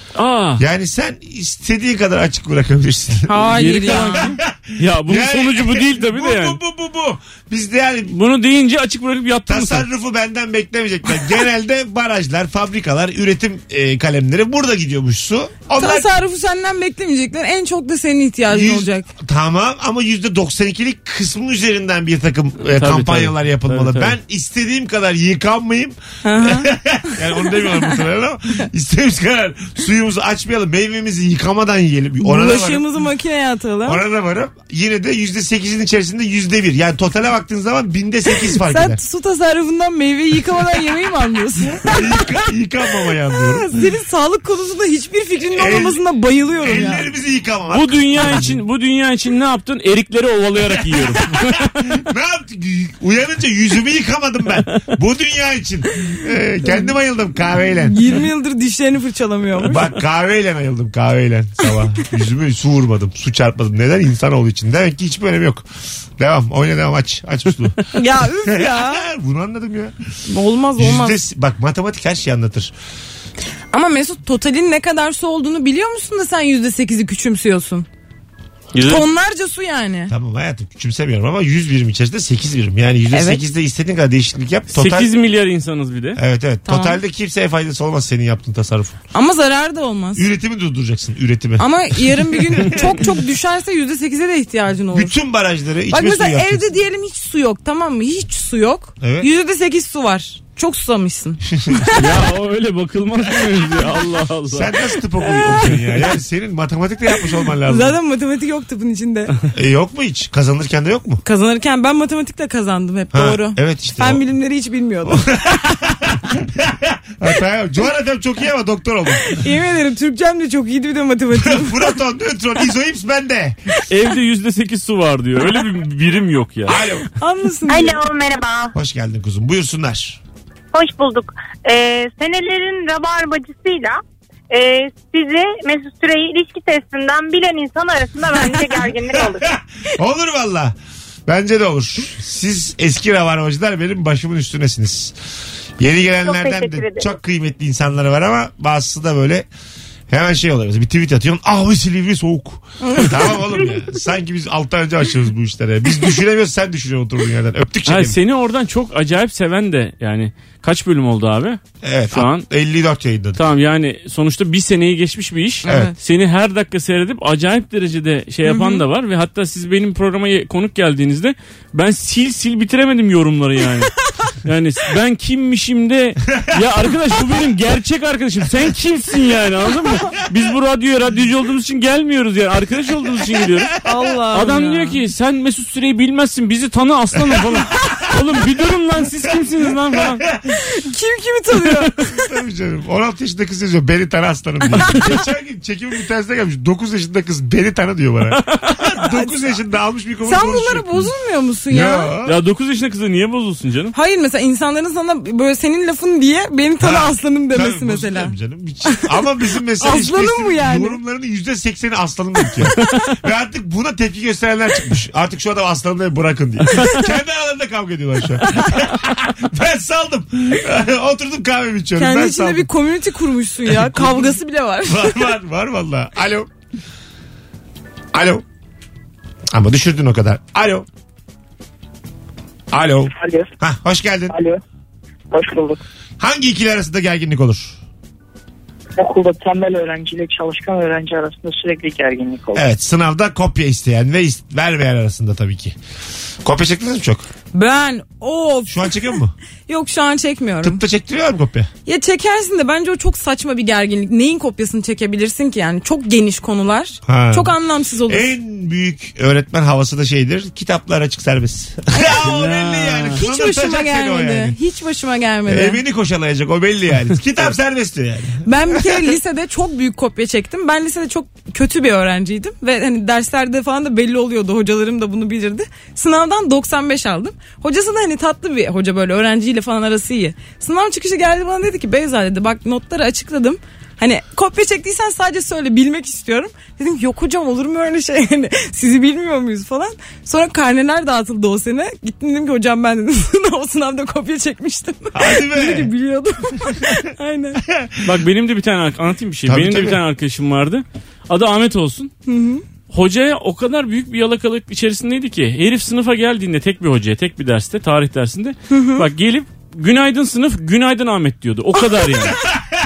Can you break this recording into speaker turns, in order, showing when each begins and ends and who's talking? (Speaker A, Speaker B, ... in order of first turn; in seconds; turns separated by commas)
Speaker A: 0.1-0.6, Speaker B: 0.6-8.1, Speaker C: 3.3-4.3, Speaker A: 3.5-6.6, Speaker A: 8.1-9.8, Speaker B: 9.5-16.1, Speaker C: 15.8-19.1, Speaker B: 18.5-32.9, Speaker A: 22.7-24.1, Speaker C: 26.2-26.7, Speaker C: 32.2-34.0, Speaker B: 33.8-39.0, Speaker C: 38.5-42.2, Speaker B: 41.8-43.7, Speaker C: 43.4-47.1, Speaker B: 45.5-46.0, Speaker B: 46.6-48.6, Speaker A: 47.7-51.9, Speaker B: 51.9-58.0, Speaker C: 56.6-56.9, Speaker C: 57.9-59.8, Speaker B: 59.6-65.7, Speaker B: 66.2-69.9, Speaker C: 67.9-69.0, Speaker C: 70.3-71.2, Speaker B: 70.8-72.7, Speaker C: 73.7-77.9, Speaker A: 78.7-79.0, Speaker C: 78.8-80.1, Speaker B: 80.1-85.1, Speaker C: 83.1-83.4, Speaker A: 84.7-86.2, Speaker B: 86.2-89.0, Speaker C: 86.7-87.0, Speaker C: 89.1-90.2, Speaker B: 90.2-93.0, Speaker C: 91.6-95.1, Speaker B: 94.9-96.7, Speaker C: 95.9-102.0, Speaker B: 99.0-99.3, Speaker B: 101.5-102.0, Speaker A: 102.0-104.7, Speaker B: 104.5-108.0, Speaker C: 107.7-109.3, Speaker B: 109.5-111.2, Speaker C: 111.2-115.8, Speaker B: 113.1-114.2, Speaker B: 115.0-119.4, Speaker C: 119.2-122.0, Speaker B: 121.3-123.6, Speaker A: 123.9-126.8, Speaker B: 126.7-127.1, Speaker C: 127.2-128.0, Speaker D: 127.7-128.7, Speaker B: 128.7-130.2, Speaker D: 130.7-134.0, Speaker D: 134.5-139.5, Speaker B: 139.1-140.7, Speaker B: 141.3-145.1, Speaker B: 145.8-149.5, Speaker D: 146.2-147.0, Speaker B: 150.1-158.2, Speaker C: 152.8-153.1, Speaker A: 157.8-161.6, Speaker B: 161.8-163.4, Speaker A: 162.1-162.5, Speaker A: 163.3-183.7, Speaker C: 165.6-165.9, Speaker B: 165.7-165.9, Speaker C: 168.4-168.8, Speaker C: 183.8-185.0, Speaker A: 184.3-190.2, Speaker B: 187.3-187.9, Speaker C: 190.7-192.2, Speaker B: 192.1-201.1, Speaker C: 194.7-195.1, Speaker A: 198.4-198.7, Speaker C: 200.2-202.1, Speaker B: 201.7-202.4, Speaker A: 202.2-203.9, Speaker C: 203.9-208.3, Speaker B: 206.8-222.7, Speaker C: 209.8-211.0, Speaker C: 222.0-225.2, Speaker B: 223.8-224.2, Speaker B: 224.9-226.5, Speaker B: 228.1-228.4, Speaker B: 229.5-230.9, Speaker B: 232.7-234.3, Speaker E: 233.1-233.5, Speaker E: 234.3-234.6, Speaker E: 235.3-235.8, Speaker B: 236.2-237.8, Speaker E: 239.0-242.6, Speaker B: 242.5-245.8, Speaker B: 246.4-247.3, Speaker C: 247.5-249.0, Speaker B: 248.7-249.3, Speaker C: 249.7-250.8, Speaker B: 250.6-251.7, Speaker C: 251.8-258.3, Speaker B: 257.1-257.5, Speaker B: 258.1-264.6, Speaker A: 262.2-263.2, Speaker C: 263.2-265.8, Speaker B: 265.5-269.1, Speaker C: 268.4-297.6, Speaker B: 295.1-295.9, Speaker B: 297.7-298.1, Speaker A: 298.0-302.1, Speaker B: 299.5-300.0, Speaker C: 302.3-302.6, Speaker A: 302.9-312.4, Speaker C: 308.7-309.0